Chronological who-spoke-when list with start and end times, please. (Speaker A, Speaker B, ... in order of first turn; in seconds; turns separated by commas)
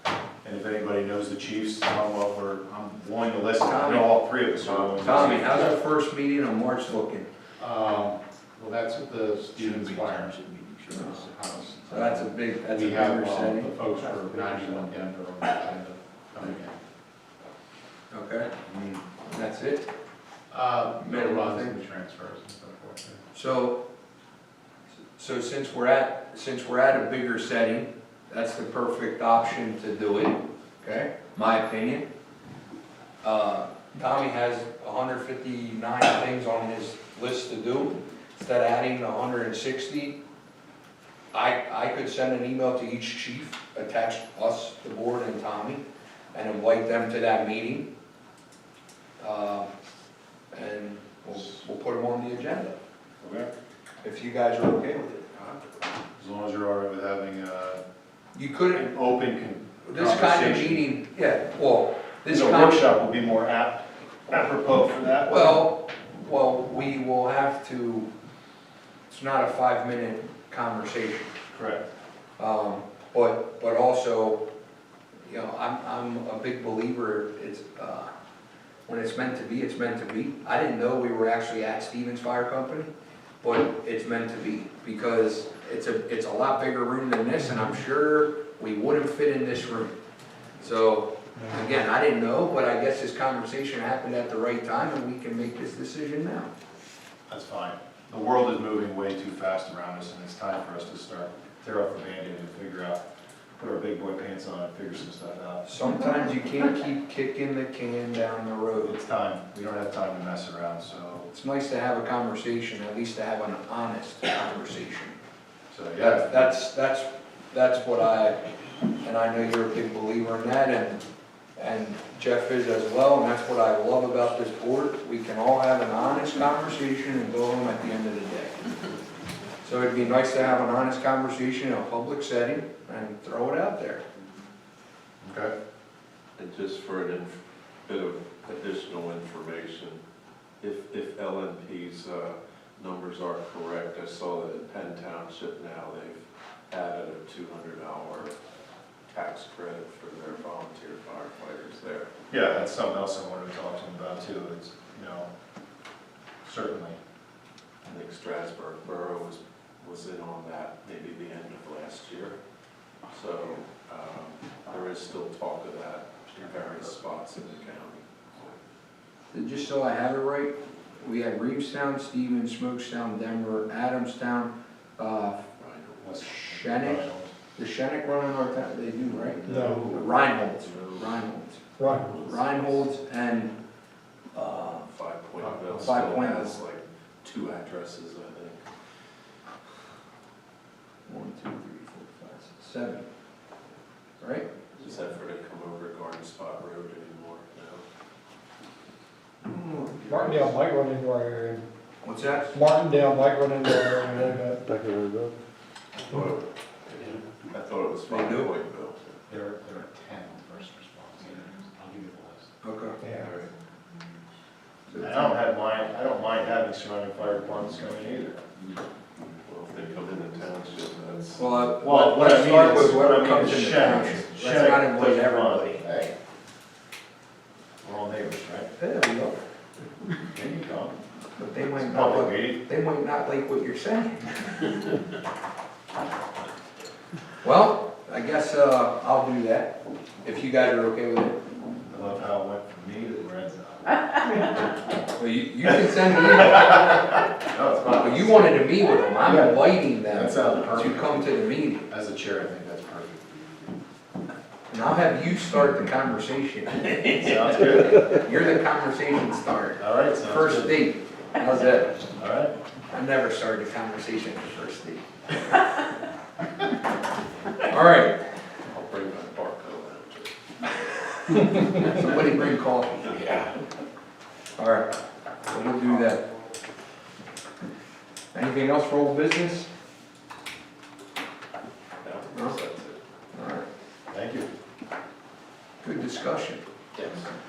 Speaker A: 0.4-5.8, Speaker B: 3.6-4.1, Speaker C: 4.6-5.7, Speaker B: 5.0-7.3, Speaker D: 7.6-16.8, Speaker C: 9.7-10.5, Speaker B: 10.9-11.3, Speaker B: 11.9-13.8, Speaker B: 18.1-18.5, Speaker D: 18.7-19.0, Speaker B: 19.3-19.9, Speaker D: 20.5-23.2, Speaker B: 21.0-21.8, Speaker B: 23.3-23.8, Speaker B: 25.1-32.1, Speaker B: 33.2-40.2, Speaker B: 41.3-47.9, Speaker B: 49.2-49.7, Speaker B: 50.5-52.8, Speaker A: 53.2-53.5, Speaker B: 54.0-55.3, Speaker C: 55.3-55.7, Speaker A: 56.2-57.8, Speaker B: 58.3-58.9, Speaker A: 58.7-60.9, Speaker B: 59.9-62.9, Speaker A: 62.3-65.7, Speaker B: 65.3-68.1, Speaker B: 69.1-71.3, Speaker A: 71.5-71.9, Speaker B: 72.4-74.4, Speaker B: 75.3-78.1, Speaker B: 78.9-82.9, Speaker B: 83.4-90.0, Speaker B: 90.6-96.5, Speaker A: 97.3-103.0, Speaker A: 103.6-105.6, Speaker B: 105.6-109.0, Speaker A: 108.8-111.3, Speaker B: 111.3-115.2, Speaker A: 115.7-116.4, Speaker B: 116.0-118.4, Speaker B: 119.0-121.0, Speaker B: 121.6-128.7, Speaker B: 129.6-134.0, Speaker A: 135.2-135.5, Speaker C: 136.4-140.0, Speaker C: 140.6-148.3, Speaker C: 149.1-152.1, Speaker A: 152.3-155.3, Speaker A: 156.4-157.0, Speaker C: 157.9-162.4, Speaker C: 163.1-168.6, Speaker B: 169.3-175.4, Speaker C: 175.6-176.2, Speaker A: 176.0-177.3, Speaker B: 176.2-183.5, Speaker C: 179.1-181.3, Speaker E: 179.4-179.9, Speaker E: 181.8-182.1, Speaker C: 181.9-182.9, Speaker B: 184.3-184.9, Speaker C: 184.9-188.7, Speaker B: 185.8-186.6, Speaker B: 191.1-193.1, Speaker B: 194.2-194.5, Speaker C: 194.8-197.8, Speaker C: 199.5-200.5, Speaker E: 200.0-201.6, Speaker B: 202.0-202.5, Speaker E: 202.5-204.6, Speaker C: 206.1-209.2, Speaker B: 208.1-208.5, Speaker D: 209.3-212.5, Speaker B: 212.6-213.0, Speaker C: 213.1-213.5, Speaker B: 214.9-215.4, Speaker A: 215.0-218.4, Speaker C: 219.4-221.4, Speaker B: 221.4-225.9, Speaker A: 221.8-226.1, Speaker A: 227.8-228.7, Speaker B: 228.8-229.4, Speaker A: 230.3-230.9, Speaker B: 231.4-234.7, Speaker A: 231.8-232.6, Speaker B: 237.4-241.4, Speaker A: 241.9-243.9, Speaker B: 245.2-247.3, Speaker A: 246.2-248.7, Speaker B: 248.0-251.9, Speaker A: 249.2-251.3, Speaker A: 251.9-253.6, Speaker B: 254.7-262.2, Speaker A: 257.1-258.2, Speaker A: 259.8-260.8, Speaker A: 262.2-262.5, Speaker B: 262.9-265.6, Speaker B: 267.6-268.3, Speaker C: 268.7-272.1, Speaker B: 271.3-273.2, Speaker C: 273.0-273.6, Speaker B: 274.6-274.9, Speaker B: 275.5-276.2, Speaker B: 278.3-279.7, Speaker C: 282.0-283.0, Speaker B: 283.3-283.7, Speaker A: 284.1-284.5, Speaker B: 285.8-286.6, Speaker C: 286.9-287.3